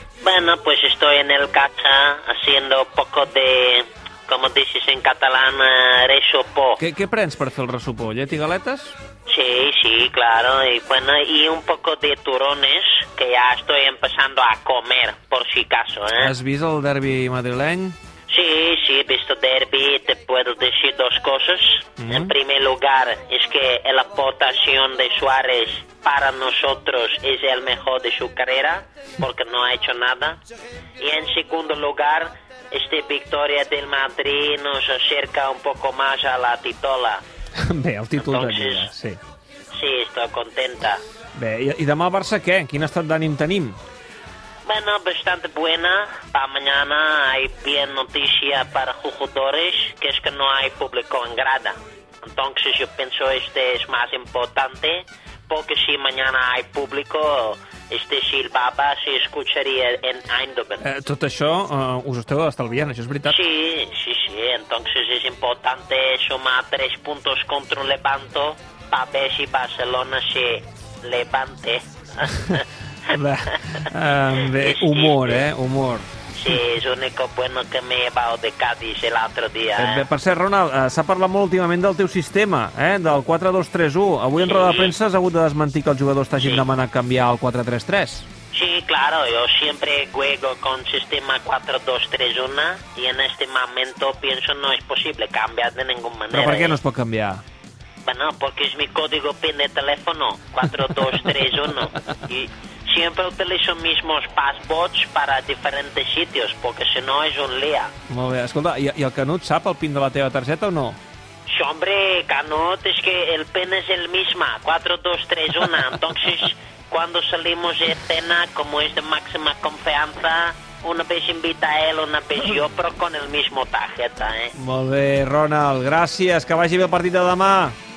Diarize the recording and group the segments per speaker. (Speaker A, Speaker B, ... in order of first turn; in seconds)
Speaker A: 0.2-6.8, 9.3-16.3, 18.3-30.4, 31.0-37.2, 38.2-38.9, 39.7-41.0, 44.7-60.9, 63.3-73.9, 74.4-75.4, 76.3-80.1, 84.4-84.9, 86.4-86.7, 88.5-96.8, 98.0-107.9, 111.5-124.5
Speaker B: 6.8-9.0, 16.2-18.0, 22.0-22.3, 37.6-39.2, 41.3-43.8, 60.8-63.4, 72.5-76.1, 79.8-88.3, 96.3-97.4, 108.1-111.0, 124.5-127.8